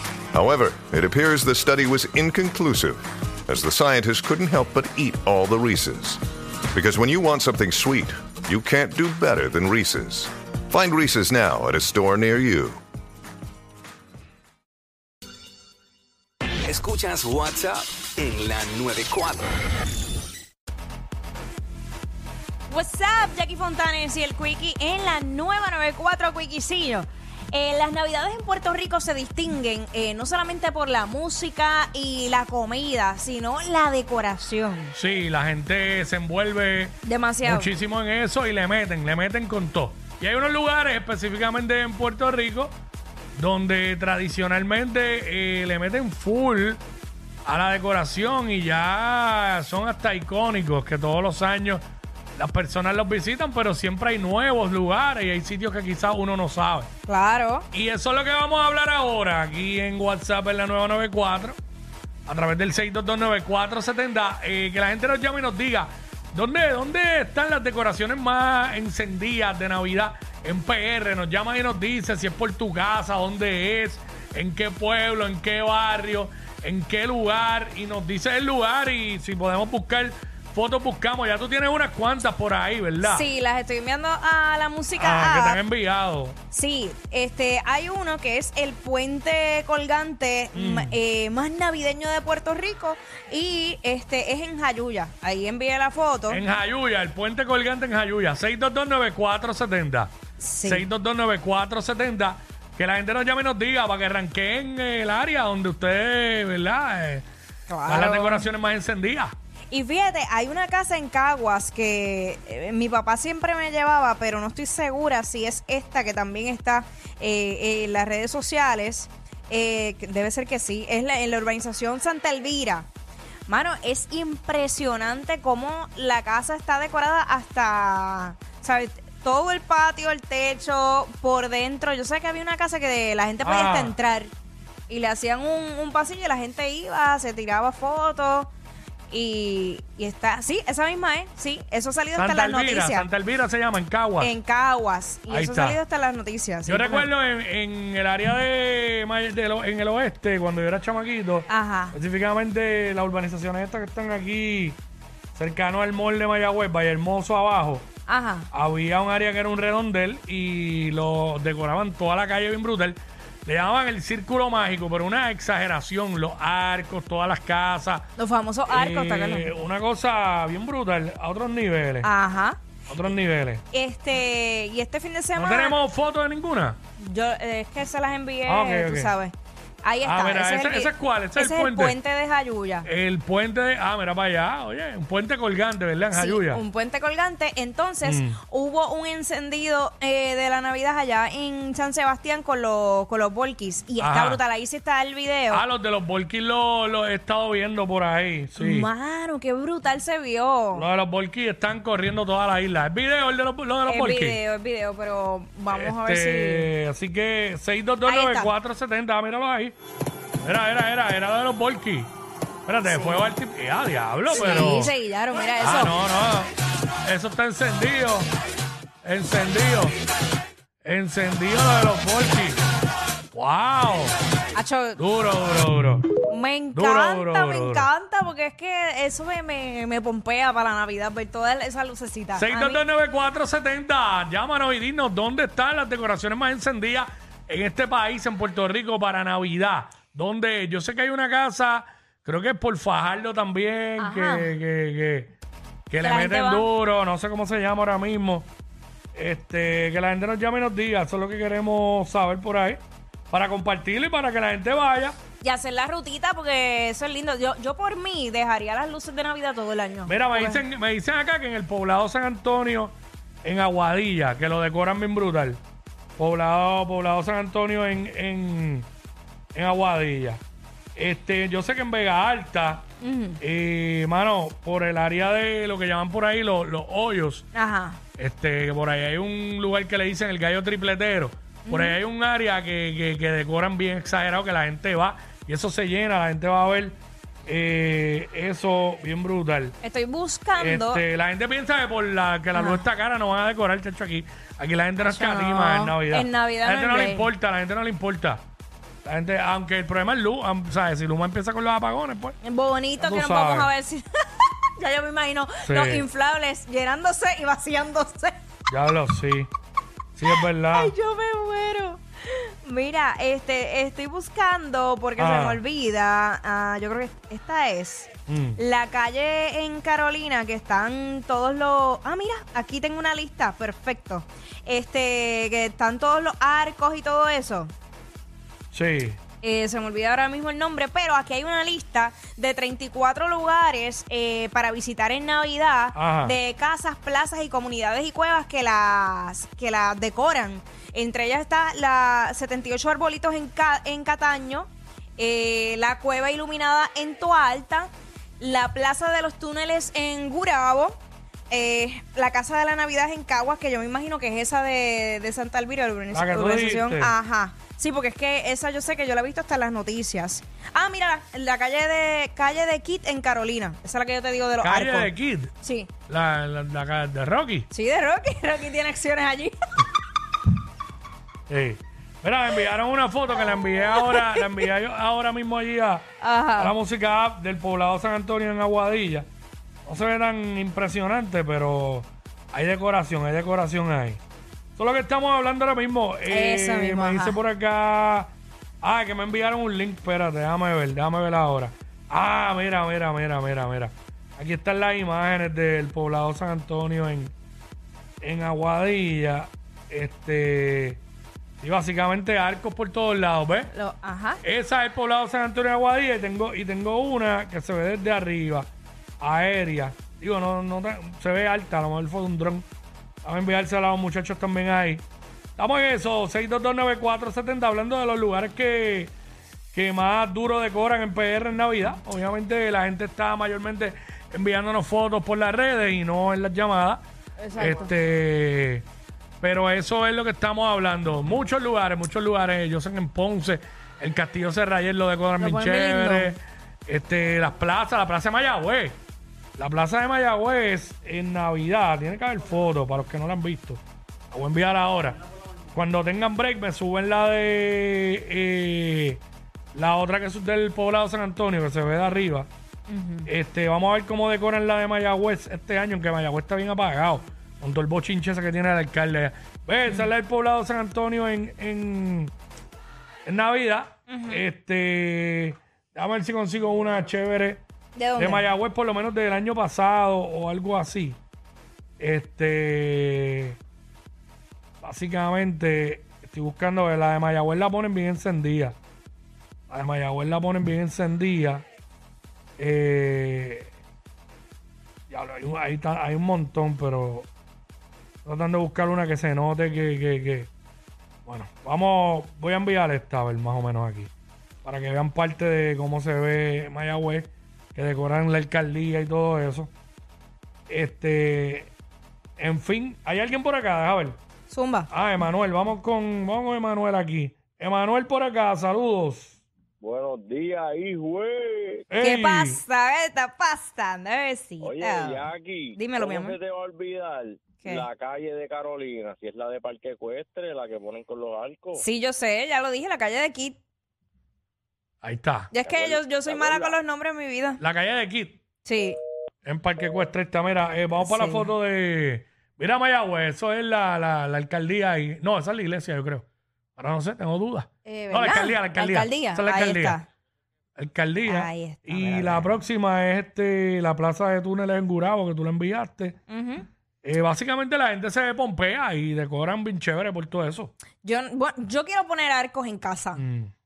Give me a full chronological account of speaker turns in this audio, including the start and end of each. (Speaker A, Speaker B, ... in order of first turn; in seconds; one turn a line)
Speaker A: 0.3-6.2
Speaker A: 6.7-12.8
Speaker B: 16.6-19.5
Speaker C: 22.7-34.9
Speaker D: 34.9-42.7
Speaker C: 37.0-37.7
Speaker D: 43.3-46.8
Speaker D: 47.4-51.8
Speaker D: 52.4-56.9
Speaker C: 57.1-57.6
Speaker D: 57.7-61.6
Speaker D: 62.2-83.2
Speaker C: 83.0-85.6
Speaker D: 85.0-86.3
Speaker C: 86.5-96.4
Speaker D: 90.5-91.0
Speaker D: 96.3-100.1
Speaker C: 100.4-100.8
Speaker D: 100.6-107.2
Speaker C: 107.7-108.5
Speaker D: 107.9-109.3
Speaker C: 109.7-122.9
Speaker C: 123.5-134.3
Speaker D: 133.4-133.9
Speaker C: 134.9-138.5
Speaker C: 139.1-143.1
Speaker D: 142.2-144.3
Speaker C: 144.2-147.1
Speaker D: 145.3-145.8
Speaker D: 146.7-154.8
Speaker C: 151.5-151.9
Speaker D: 155.3-157.9
Speaker C: 158.1-158.5
Speaker D: 158.5-168.0
Speaker C: 168.2-169.5
Speaker D: 168.7-172.1
Speaker C: 172.0-172.6
Speaker D: 172.9-173.6
Speaker C: 173.7-175.8
Speaker D: 175.3-176.8
Speaker C: 177.0-182.9
Speaker D: 178.4-179.1
Speaker D: 180.0-182.0
Speaker D: 182.8-186.6
Speaker C: 186.1-195.6
Speaker D: 188.0-188.4
Speaker D: 194.0-194.4
Speaker D: 195.5-198.9
Speaker C: 198.6-200.8
Speaker D: 200.7-204.4
Speaker C: 203.8-206.7
Speaker D: 205.7-209.7
Speaker C: 208.1-208.5
Speaker D: 210.4-212.1
Speaker D: 212.7-214.9
Speaker C: 214.3-215.9
Speaker D: 215.6-216.5
Speaker D: 217.0-218.3
Speaker D: 219.0-219.9
Speaker D: 220.8-222.6
Speaker D: 223.3-224.1
Speaker C: 224.5-225.0
Speaker D: 225.0-226.1
Speaker C: 226.2-232.8
Speaker D: 226.7-227.9
Speaker D: 232.3-245.3
Speaker C: 244.0-244.5
Speaker D: 245.9-248.5
Speaker C: 246.0-246.7
Speaker D: 249.1-255.2
Speaker C: 255.4-260.6
Speaker D: 260.1-265.6
Speaker D: 266.2-268.9
Speaker D: 269.5-270.4
Speaker D: 270.9-272.8
Speaker C: 273.0-273.4
Speaker D: 273.4-277.4
Speaker C: 277.5-278.0
Speaker D: 278.2-289.8
Speaker C: 281.6-282.0
Speaker C: 289.8-291.0
Speaker D: 290.6-298.4
Speaker C: 292.5-292.8
Speaker C: 295.0-297.3
Speaker D: 299.0-302.4
Speaker C: 302.4-308.4
Speaker D: 303.0-303.7
Speaker D: 305.6-306.0
Speaker D: 308.7-309.5
Speaker D: 310.1-310.9
Speaker C: 310.3-327.7
Speaker D: 315.2-315.6
Speaker D: 318.3-318.6
Speaker D: 328.7-329.2
Speaker C: 329.4-365.1
Speaker D: 335.9-336.4
Speaker D: 356.1-357.1
Speaker D: 364.6-365.5
Speaker C: 365.6-365.9
Speaker D: 366.1-367.6
Speaker C: 367.7-369.5
Speaker D: 371.5-376.1
Speaker C: 373.8-374.5
Speaker C: 376.2-376.7
Speaker D: 376.6-379.3
Speaker D: 379.8-384.2
Speaker D: 384.8-397.3
Speaker C: 386.3-387.4
Speaker D: 398.2-401.0
Speaker D: 401.6-403.7
Speaker C: 403.7-404.4
Speaker D: 404.4-408.7
Speaker D: 409.2-412.6
Speaker D: 413.2-415.0
Speaker D: 415.6-419.1
Speaker D: 419.7-427.0
Speaker C: 427.4-427.9
Speaker D: 427.6-428.8
Speaker D: 429.4-439.0
Speaker C: 435.4-436.3
Speaker D: 439.6-445.2
Speaker D: 445.7-449.2
Speaker D: 449.7-452.5
Speaker C: 452.9-453.3
Speaker D: 453.2-462.3
Speaker D: 463.2-467.6
Speaker C: 464.1-464.4
Speaker C: 467.9-468.4
Speaker D: 468.1-471.2
Speaker D: 472.0-473.6
Speaker D: 474.8-478.8
Speaker D: 479.7-481.6
Speaker D: 482.6-483.7
Speaker D: 485.1-487.3
Speaker D: 488.2-490.5
Speaker D: 491.2-494.1
Speaker D: 494.6-499.7
Speaker D: 500.7-501.7
Speaker D: 502.4-504.2
Speaker C: 504.5-504.9
Speaker D: 504.9-509.4
Speaker E: 509.8-511.9
Speaker D: 511.9-512.6
Speaker C: 512.0-516.4
Speaker E: 514.6-521.8
Speaker C: 517.6-517.9
Speaker C: 521.8-523.6
Speaker D: 525.0-525.5
Speaker C: 525.5-527.6
Speaker E: 525.6-526.8
Speaker D: 527.6-528.4
Speaker C: 528.6-529.0
Speaker D: 529.4-536.2
Speaker C: 531.0-531.5
Speaker D: 536.8-540.0
Speaker C: 537.8-540.0
Speaker D: 540.8-546.2
Speaker C: 541.2-542.6
Speaker C: 546.3-546.6
Speaker D: 547.0-550.7
Speaker C: 551.0-553.2
Speaker D: 553.1-553.5